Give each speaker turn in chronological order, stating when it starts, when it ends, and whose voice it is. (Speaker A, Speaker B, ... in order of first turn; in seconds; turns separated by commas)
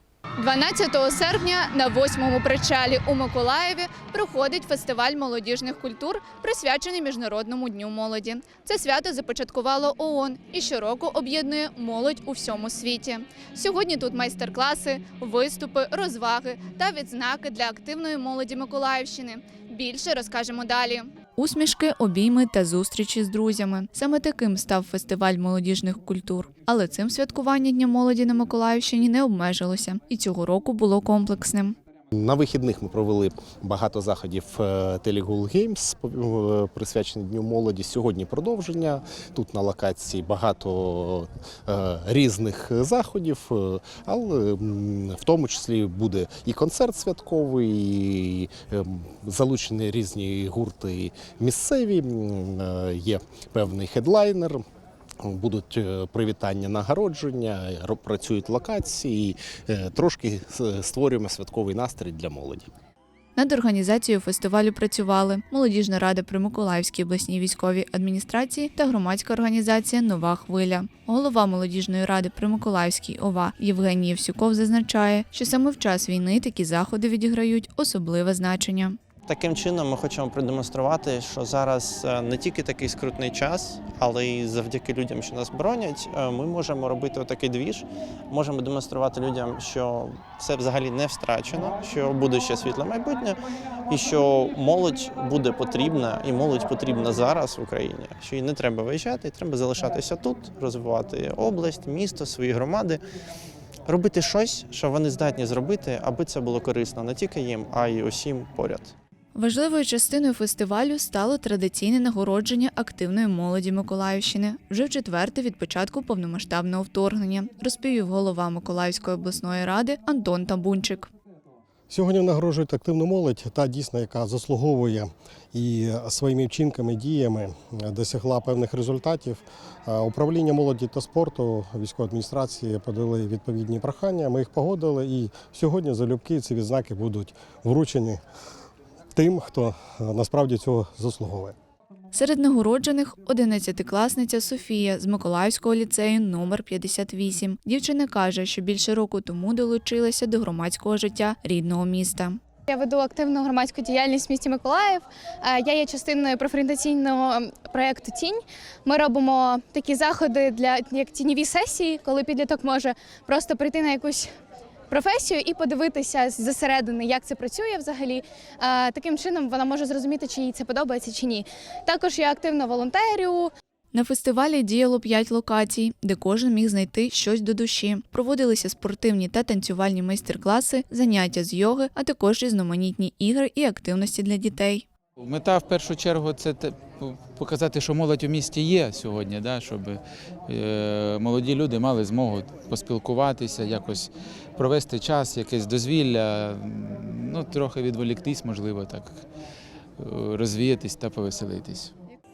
Speaker A: 0.4-31.8, Speaker B: 32.2-54.6, Speaker B: 55.2-62.7, Speaker A: 63.4-79.0, Speaker C: 79.3-103.0, Speaker C: 103.9-108.9, Speaker A: 109.3-121.1, Speaker D: 121.9-138.2, Speaker D: 139.1-141.5, Speaker A: 142.1-152.4, Speaker E: 152.7-164.2, Speaker E: 164.9-173.5, Speaker A: 173.9-184.8, Speaker F: 185.2-199.2, Speaker F: 200.0-201.9